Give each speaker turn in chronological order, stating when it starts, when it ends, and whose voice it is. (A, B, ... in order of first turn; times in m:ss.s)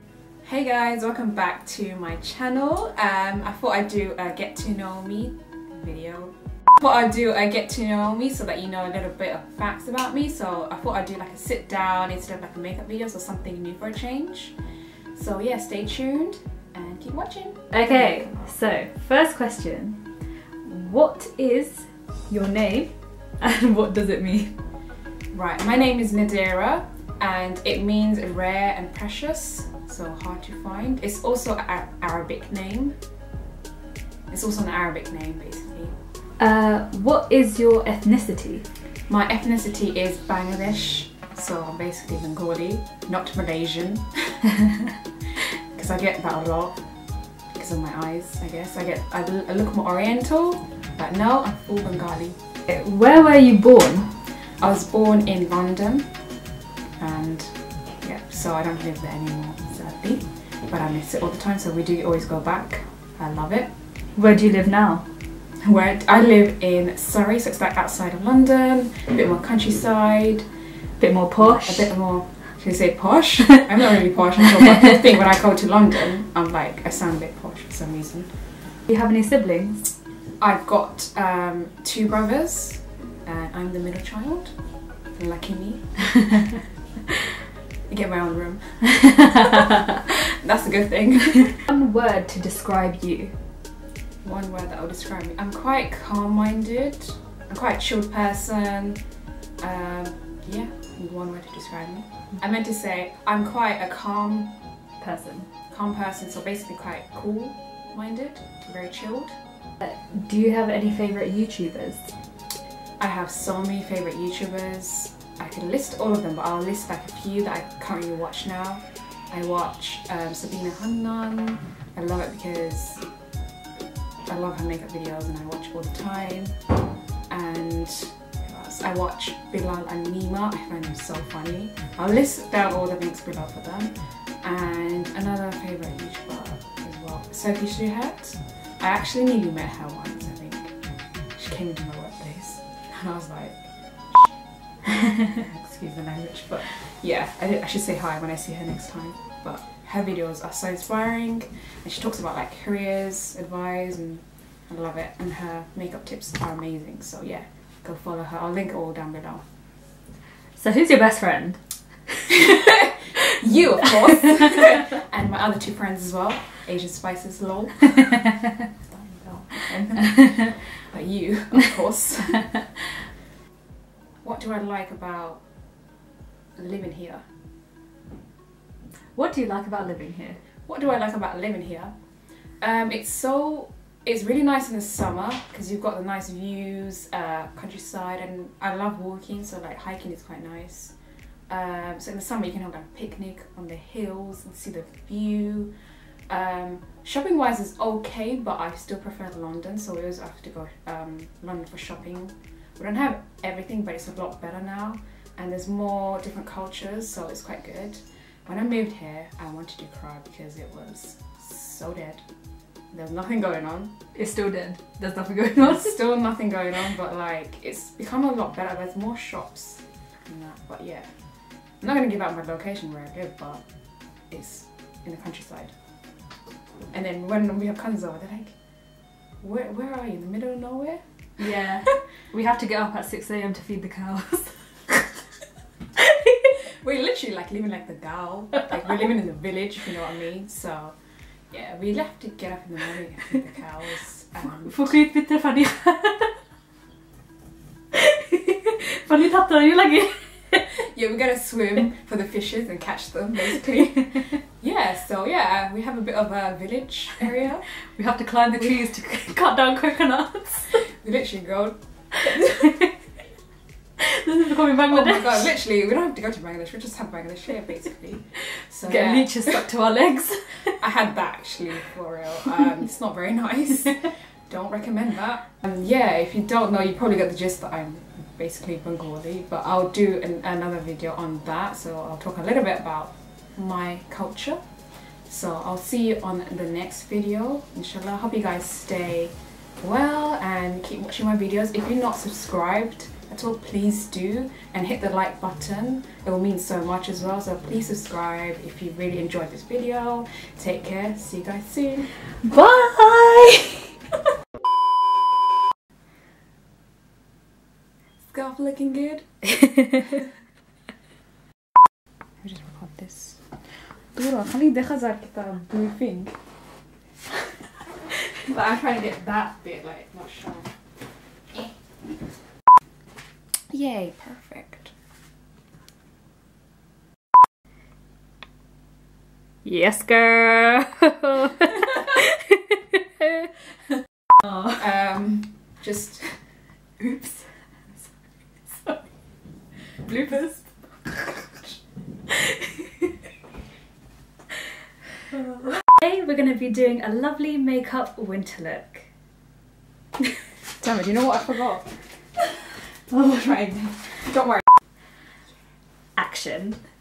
0:00.4-0:14.6 A
0:15.1-0:18.6 A
0:17.7-0:20.0 B
0:20.6-0:24.5 B
0:25.3-0:33.0 A
0:34.3-0:36.0 A
0:36.4-0:38.7 B
0:39.1-0:44.4 A
0:45.6-0:52.4 A
0:52.7-0:54.1 B
0:54.6-0:56.3 A
0:57.0-1:03.7 A
1:04.1-1:05.1 B
1:05.6-1:10.5 A
1:11.0-1:11.9 B
1:11.4-1:18.4 A
1:18.9-1:19.9 B
1:20.4-1:26.1 A
1:27.9-1:31.6 A
1:31.6-1:33.4 B
1:34.2-1:39.0 A
1:39.6-1:44.6 A
1:45.0-1:45.5 B
1:45.7-1:49.4 A
1:49.8-1:52.1 B
1:53.0-2:03.1 A
2:04.3-2:06.7 A
2:07.3-2:39.4 A
2:40.6-2:41.6 B
2:42.3-2:48.2 A
2:48.9-2:52.6 A
2:54.2-2:55.4 A
2:56.6-2:57.3 A
2:59.1-3:00.4 B
3:00.6-3:11.0 A
3:11.5-3:32.3 A
3:32.9-3:34.0 A
3:34.1-3:36.0 B
3:35.6-3:43.6 A
3:44.3-3:45.8 A
3:46.9-3:48.6 A
3:49.4-3:51.0 A
3:51.4-3:55.0 B
3:56.0-3:56.3 B
3:56.6-4:01.0 A
4:01.5-4:05.0 A
4:04.4-4:06.4 B
4:07.9-4:10.7 B
4:10.7-4:17.7 A
4:17.8-4:20.8 B
4:20.8-4:22.7 A
4:22.3-4:22.9 B
4:24.0-4:25.5 B
4:24.8-4:29.6 A
4:28.8-4:30.8 B
4:30.8-4:44.6 A
4:45.2-5:02.1 A
5:02.4-5:03.9 B
5:08.2-5:09.4 A
5:12.4-5:13.5 A
5:14.0-5:16.4 A
5:18.3-5:20.8 A
5:23.7-5:24.9 A
5:29.6-5:33.5 B
5:34.6-5:36.5 A
5:37.0-5:37.5 B
5:38.7-5:39.0 B
5:40.1-5:40.7 B
5:41.2-5:41.8 A
5:42.3-5:42.9 B
5:45.3-5:49.1 B
5:50.8-5:51.9 A
5:53.1-5:53.5 B
5:53.1-5:54.7 A
5:56.2-5:56.8 B